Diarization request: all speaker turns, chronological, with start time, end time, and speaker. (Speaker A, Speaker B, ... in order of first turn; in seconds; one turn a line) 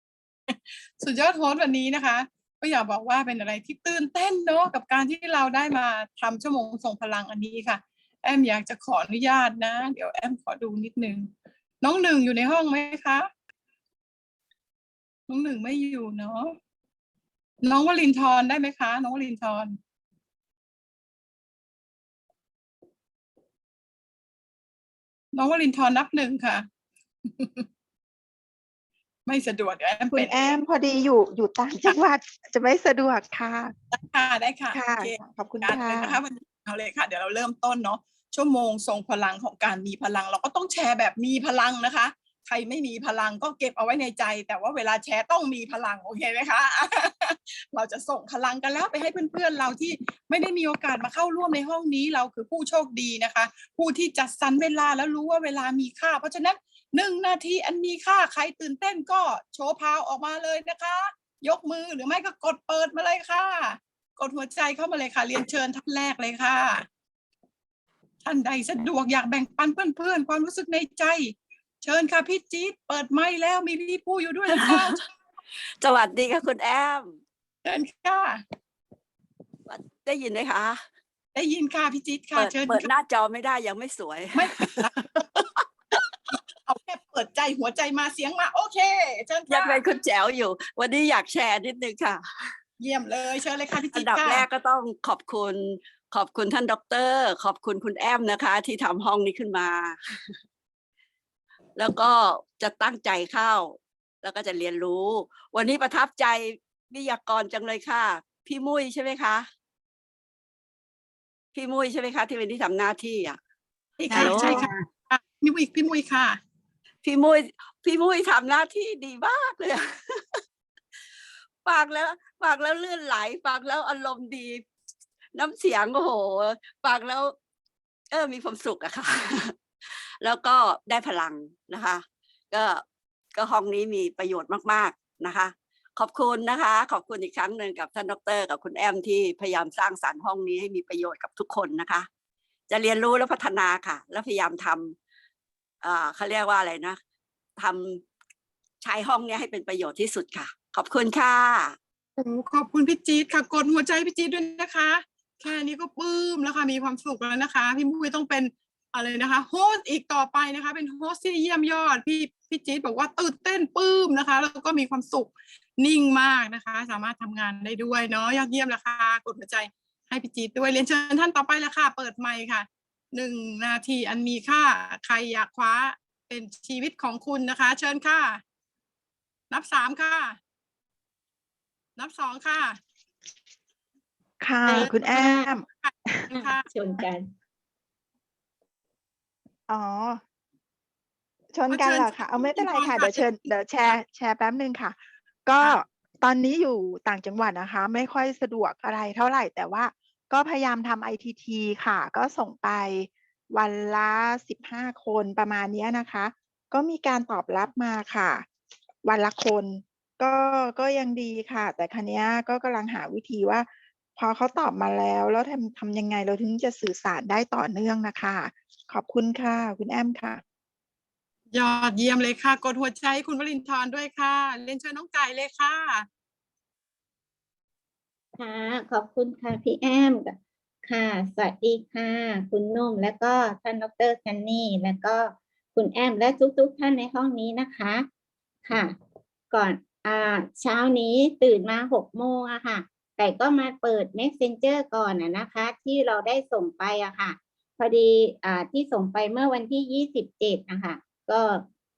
Speaker A: 0.5-13.3
Speaker A: 15.3-16.6
Speaker A: 17.6-19.8
Speaker A: 25.3-26.7
Speaker A: 27.3-27.7
Speaker A: 29.3-30.6
Speaker B: 30.1-33.7
Speaker A: 33.9-66.9
Speaker B: 34.7-36.2
Speaker A: 68.2-75.0
Speaker C: 74.5-75.0
Speaker C: 75.8-77.2
Speaker A: 77.7-78.4
Speaker C: 79.7-80.8
Speaker A: 81.3-82.9
Speaker C: 82.3-85.4
Speaker A: 84.4-84.9
Speaker A: 86.7-89.8
Speaker C: 89.5-92.2
Speaker A: 92.8-94.5
Speaker C: 93.9-100.0
Speaker C: 101.8-109.5
Speaker C: 111.5-113.4
Speaker A: 114.0-116.4
Speaker C: 114.1-114.7
Speaker C: 117.0-120.2
Speaker C: 121.7-124.7
Speaker C: 125.3-127.3
Speaker C: 128.1-129.5
Speaker C: 130.2-142.1
Speaker C: 142.7-145.0
Speaker C: 145.8-147.0
Speaker C: 147.6-148.0
Speaker C: 148.8-151.8
Speaker A: 152.2-178.4
Speaker A: 179.5-180.4
Speaker A: 182.0-182.8
Speaker B: 184.4-186.3
Speaker D: 184.7-185.5
Speaker A: 185.8-186.7
Speaker D: 186.3-187.3
Speaker B: 189.7-190.2
Speaker B: 191.5-208.5
Speaker A: 191.7-193.3
Speaker B: 209.0-220.4
Speaker A: 221.5-226.1
Speaker D: 228.4-238.1
Speaker D: 238.7-239.0
Speaker D: 239.5-251.7